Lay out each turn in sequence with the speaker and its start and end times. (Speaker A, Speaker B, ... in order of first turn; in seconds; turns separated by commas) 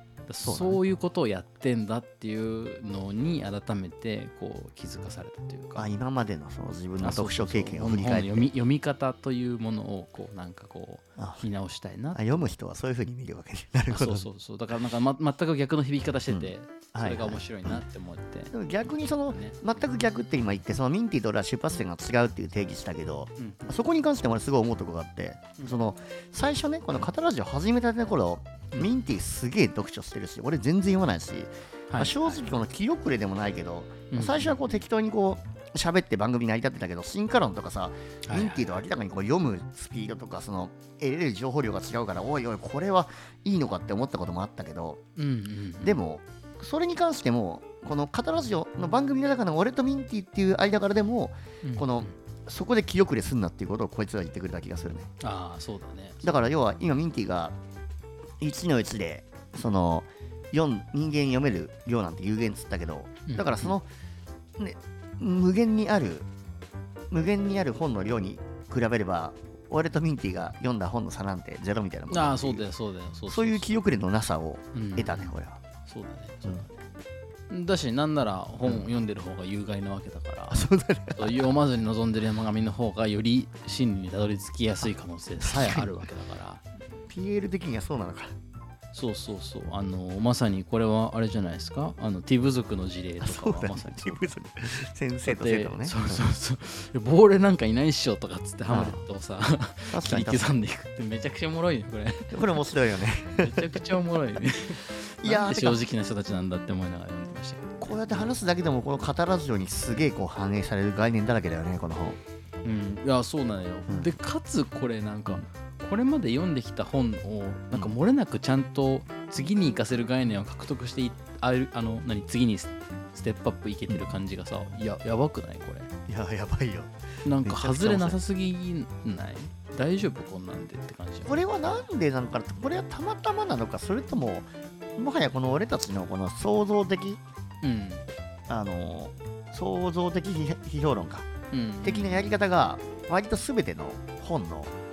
Speaker A: 0.3-5.9, Speaker B: 0.4-0.8, Speaker B: 5.8-8.5, Speaker A: 7.0-12.3, Speaker B: 11.2-11.4, Speaker B: 12.1-14.3, Speaker A: 13.9-19.6, Speaker B: 16.3-17.8, Speaker B: 18.5-45.0, Speaker A: 23.4-23.7, Speaker A: 31.9-32.5, Speaker A: 34.1-34.8, Speaker A: 38.3-38.8, Speaker A: 45.2-46.0, Speaker B: 45.8-55.1, Speaker A: 51.6-52.1, Speaker A: 55.2-56.4, Speaker B: 56.2-57.5, Speaker B: 58.4-63.9, Speaker A: 63.3-63.8, Speaker B: 64.6-66.3, Speaker B: 67.1-72.7, Speaker A: 72.1-73.9, Speaker B: 73.3-75.6, Speaker A: 74.7-75.3, Speaker A: 75.9-76.9, Speaker A: 77.5-86.6, Speaker B: 80.5-81.5, Speaker B: 85.4-86.0, Speaker B: 87.1-88.3, Speaker A: 88.9-94.2, Speaker B: 93.2-96.2, Speaker A: 95.2-102.6, Speaker B: 98.7-99.0, Speaker B: 99.9-100.6, Speaker B: 102.3-103.8, Speaker A: 103.3-108.3, Speaker B: 105.2-105.8, Speaker B: 107.8-112.2, Speaker A: 112.6-125.9, Speaker B: 113.9-114.2, Speaker B: 123.9-124.1, Speaker B: 126.1-128.2, Speaker A: 127.2-131.4, Speaker B: 131.2-137.2, Speaker A: 137.6-138.1, Speaker B: 138.5-141.3, Speaker A: 141.5-142.3, Speaker B: 141.8-144.7